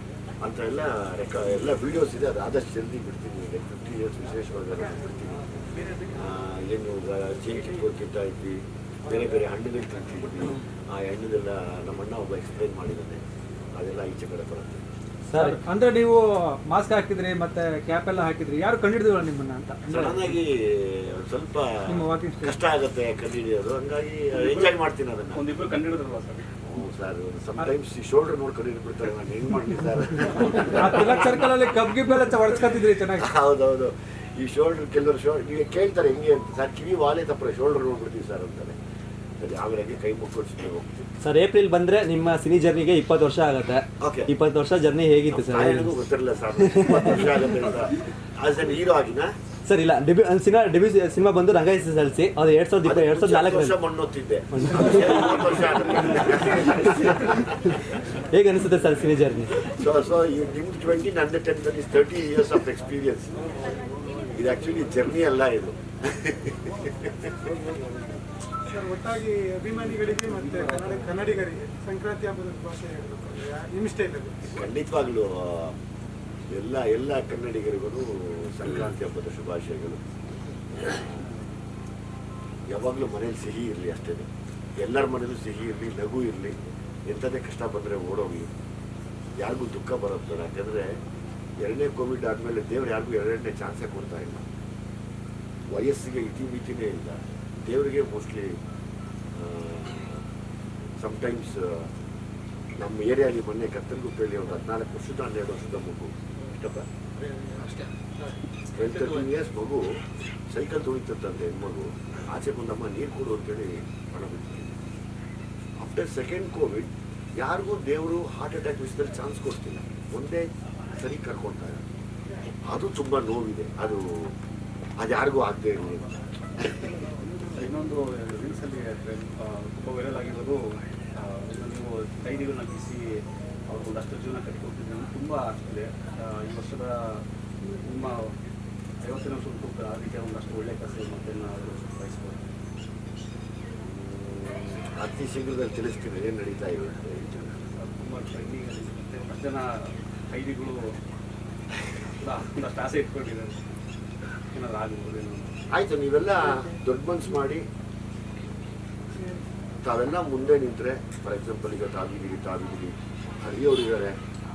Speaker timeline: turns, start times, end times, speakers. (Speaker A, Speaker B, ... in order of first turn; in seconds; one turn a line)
Speaker A: 0.4-13.2
Speaker A: 13.8-14.8
Speaker B: 15.3-15.6
Speaker C: 15.3-20.4
Speaker A: 19.9-25.4
Speaker C: 21.9-22.5
Speaker D: 24.4-24.7
Speaker D: 25.3-26.5
Speaker A: 26.6-31.6
Speaker C: 30.6-33.3
Speaker A: 33.1-38.8
Speaker A: 39.4-41.0
Speaker B: 41.2-46.0
Speaker A: 44.0-44.3
Speaker A: 45.3-49.3
Speaker B: 46.6-47.6
Speaker B: 49.7-53.8
Speaker A: 52.8-58.0
Speaker B: 54.5-57.2
Speaker B: 58.3-59.7
Speaker A: 59.6-63.4
Speaker A: 64.3-67.3
Speaker E: 68.7-74.5
Speaker A: 74.5-75.8
Speaker A: 76.5-80.0
Speaker A: 80.7-81.3
Speaker A: 82.7-88.5
Speaker A: 89.4-91.0
Speaker A: 91.6-94.4
Speaker A: 95.7-98.6
Speaker A: 99.3-100.2
Speaker A: 101.0-101.9
Speaker A: 102.8-106.9
Speaker A: 108.7-114.8
Speaker A: 115.8-121.8
Speaker A: 122.6-124.3
Speaker A: 125.0-126.9
Speaker D: 127.5-130.6
Speaker D: 131.2-133.0
Speaker D: 133.7-137.2
Speaker D: 137.8-138.3
Speaker D: 139.0-142.4
Speaker A: 143.8-147.6
Speaker D: 147.8-150.9
Speaker D: 152.2-153.6
Speaker D: 154.5-155.5
Speaker A: 155.7-157.6
Speaker A: 159.8-164.1